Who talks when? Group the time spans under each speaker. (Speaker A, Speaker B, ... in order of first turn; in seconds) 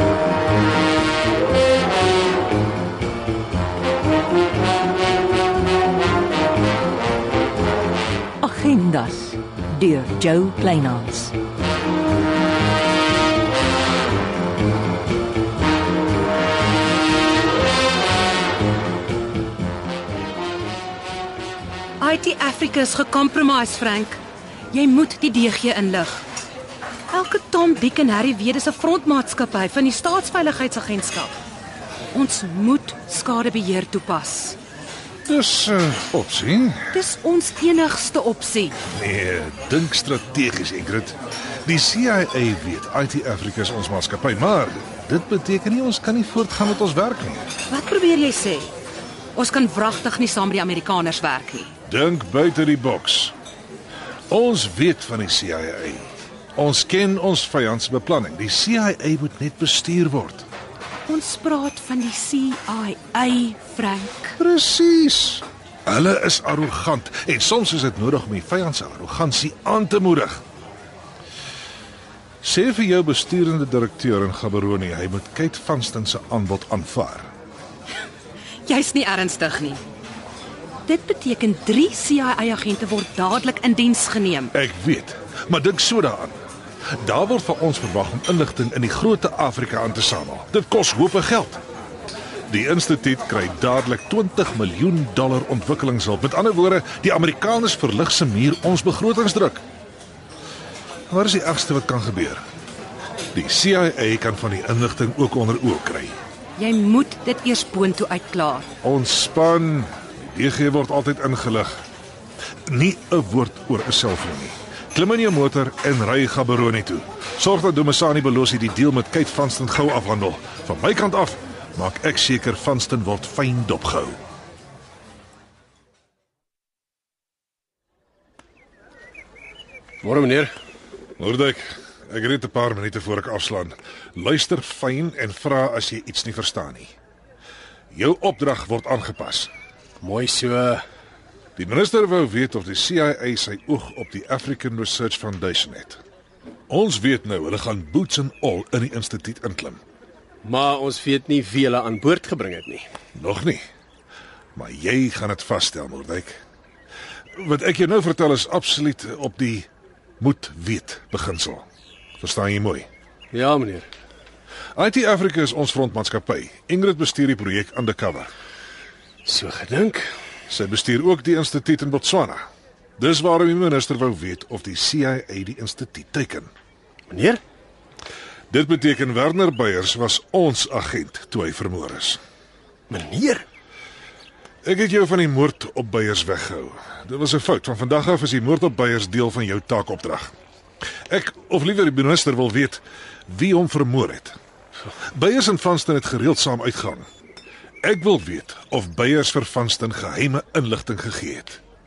Speaker A: 8.4-11.3
Speaker B: 22.0-24.2, 24.7-26.2, 27.1-31.3, 32.1-34.6, 36.9-38.8, 47.7-48.7, 49.3-51.7, 61.1-64.4, 78.7-79.8, 80.9-84.5, 106.6-108.7
Speaker C: 35.2-36.9, 38.9-47.5, 51.9-53.3, 54.3-56.0, 56.6-60.5, 64.4-70.4, 72.4-77.3, 84.5-86.4, 87.0-91.6, 92.5-99.6, 101.1-102.4, 103.3-106.2, 108.8-111.7, 112.7-124.2, 131.2-136.9, 137.9-139.5, 141.6-146.0, 146.7-149.8, 153.2-153.6, 154.6-156.4, 157.4-159.7, 160.2-161.6, 162.2-162.9, 164.8-168.3, 170.5-172.4, 173.0-176.5, 178.5-182.2, 184.6-190.3, 191.1-194.3, 195.1-197.1, 197.8-201.6
Speaker D: 130.0-130.5, 140.0-140.8, 150.4-152.8, 163.3-163.9, 169.2-170.0, 177.1-177.4, 182.9-183.4